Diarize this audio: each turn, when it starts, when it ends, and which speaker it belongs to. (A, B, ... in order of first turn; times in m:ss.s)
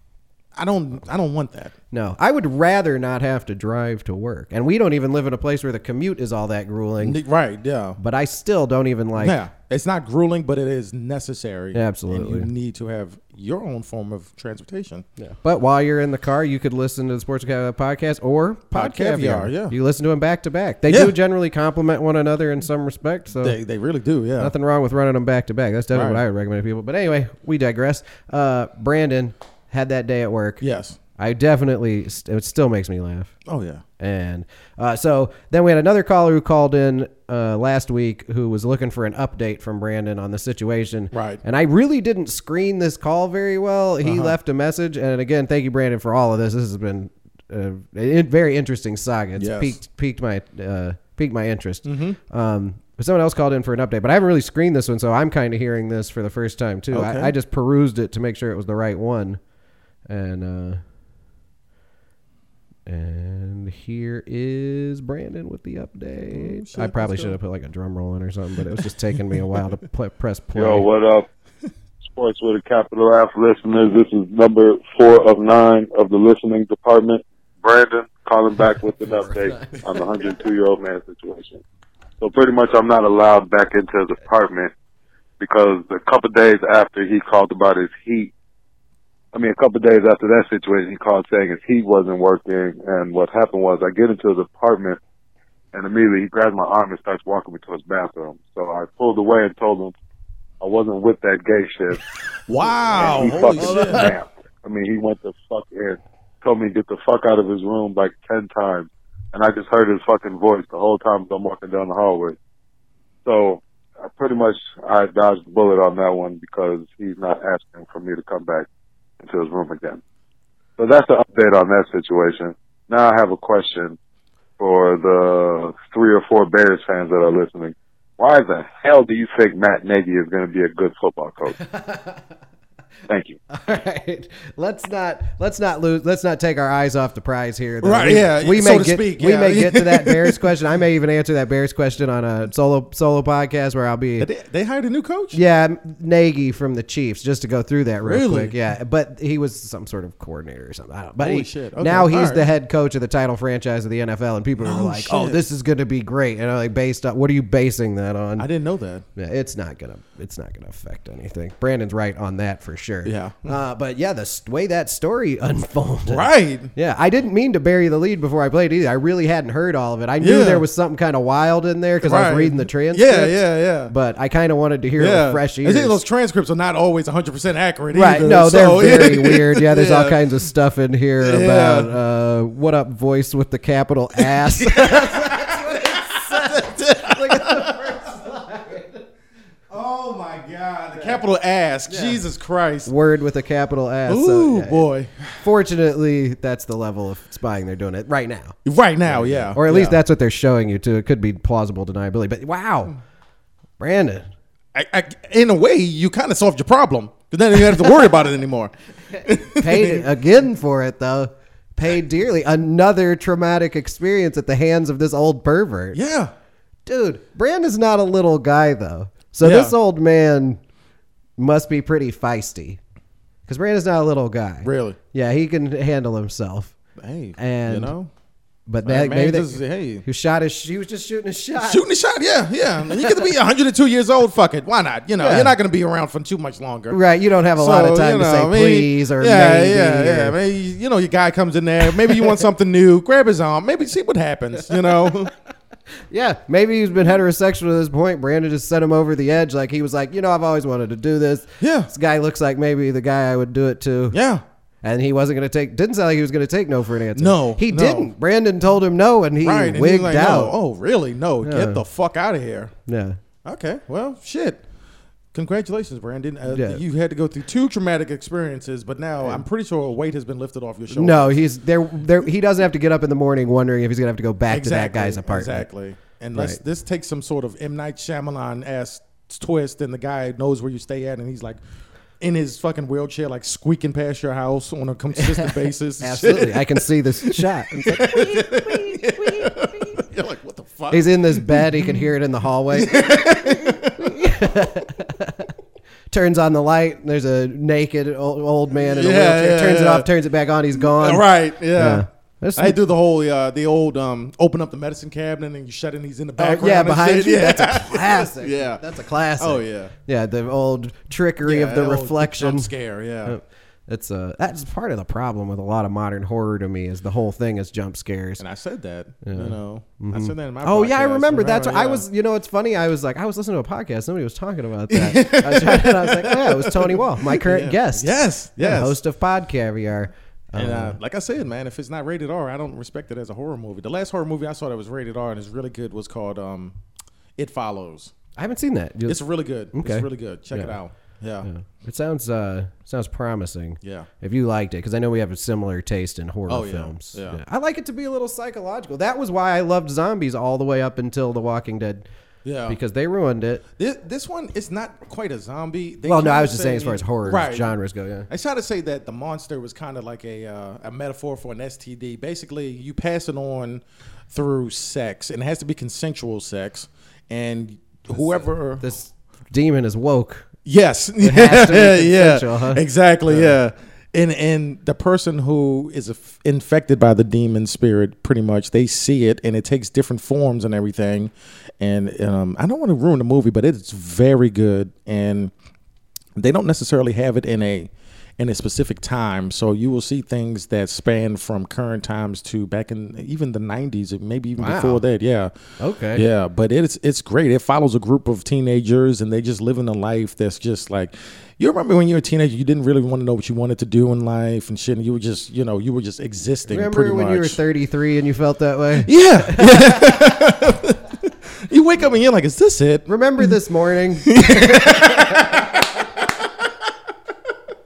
0:00.6-0:01.7 A
0:01.9-0:07.2 B
0:07.0-0:08.0 A
0:08.0-0:09.4 B
0:09.2-0:15.1 A
0:11.7-0:12.5 B
0:15.2-0:23.6 B
0:18.7-0:19.8 A
0:20.9-0:21.2 A
0:23.4-0:24.5 A
0:24.4-0:30.6 B
0:25.9-0:26.2 A
0:30.6-0:31.0 A
0:31.2-0:33.3 B
0:33.5-0:33.8 A
0:34.0-0:59.4 B
0:41.1-0:41.4 A
0:44.0-0:44.4 A
0:49.4-0:49.8 A
0:51.8-0:52.2 A
0:56.9-0:57.3 A
1:00.1-1:00.8 B
1:02.9-1:10.9 B
1:06.3-1:07.4 A
1:10.6-1:11.3 C
1:12.1-1:21.6 C
1:19.1-1:19.8 B
1:22.2-1:24.7 C
1:25.4-1:28.3 C
1:29.3-1:35.0 C
1:35.7-1:39.9 C
1:40.6-1:42.0 C
1:42.5-1:44.1 A
1:42.9-1:52.4 C
1:43.0-1:44.1 B
1:53.3-1:58.7 C
1:59.2-2:00.0 C
2:00.8-2:04.0 C
2:04.6-2:11.6 C
2:11.6-2:12.2 B
2:13.1-2:13.4 C
2:13.5-2:24.3 B
2:17.8-2:20.4 A
2:24.2-2:25.4 A
2:25.3-2:38.5 B
2:28.0-2:28.6 A
2:31.2-2:32.5 A
2:34.6-2:35.4 A
2:38.4-2:39.0 A
2:39.2-2:53.4 B
2:43.0-2:43.6 A
2:46.1-2:46.7 A
2:50.2-2:50.6 A
2:52.0-2:53.9 A
2:53.9-2:56.0 B
2:55.0-3:00.4 A
2:57.9-3:09.0 B
3:01.2-3:02.0 A
3:04.2-3:08.3 A
3:09.7-3:12.9 A
3:11.9-3:12.2 B
3:12.8-3:14.9 B
3:14.1-3:15.4 A
3:15.4-3:23.0 B
3:18.6-3:20.0 A
3:23.8-3:24.3 B
3:24.7-3:30.1 A
3:29.4-3:36.0 B
3:35.9-3:36.3 A
3:36.9-3:40.6 B
3:39.4-3:39.8 A
3:41.4-3:42.8 B
3:43.5-3:46.7 B
3:44.6-3:45.0 A
3:47.0-3:48.1 A
3:47.4-3:47.9 B
3:48.7-3:51.8 B
3:48.8-3:50.0 A
3:51.6-3:57.0 A
3:52.9-3:53.3 B
3:55.2-3:55.6 B
3:56.9-4:00.4 B
3:57.6-4:05.3 A
4:01.9-4:02.4 B
4:06.1-4:14.2 B
4:11.6-4:11.9 A
4:14.1-4:14.4 A
4:14.8-4:20.6 B
4:17.2-4:18.1 A
4:19.4-4:22.7 A
4:21.4-4:21.8 B
4:22.9-4:23.2 B
4:23.4-4:24.6 A
4:25.3-4:31.4 A
4:26.5-4:26.8 B
4:30.9-4:35.7 B
4:34.5-4:41.6 A
4:42.2-4:52.1 A
4:45.2-4:50.0 B
4:50.9-4:55.5 B
4:52.7-4:54.4 A
4:56.1-5:02.8 B
4:58.7-5:00.1 A
5:00.8-5:08.8 A
5:06.4-5:12.7 B
5:09.4-5:09.9 A
5:11.4-5:13.4 A
5:13.2-5:18.4 B
5:18.4-5:22.0 A
5:19.2-5:31.0 B
5:24.9-5:29.0 A
5:30.6-5:36.8 A
5:37.4-5:38.1 A
5:38.4-5:39.2 B
5:39.1-5:41.5 A
5:39.7-5:40.8 B
5:41.4-5:52.1 B
5:43.8-5:44.1 A
5:46.5-5:47.4 A
5:52.4-5:52.8 A
5:52.7-5:53.6 B
5:53.8-5:57.7 A
5:56.0-5:58.3 B
5:58.3-6:08.8 A
6:08.1-6:10.5 B
6:10.6-6:25.5 A
6:11.2-6:13.6 B
6:26.4-6:35.5 A
6:34.6-6:35.0 B
6:35.8-6:36.2 B
6:36.1-6:47.6 A
6:46.7-6:50.4 B
6:49.0-6:53.6 A
6:53.1-6:55.7 B
6:54.2-6:56.7 A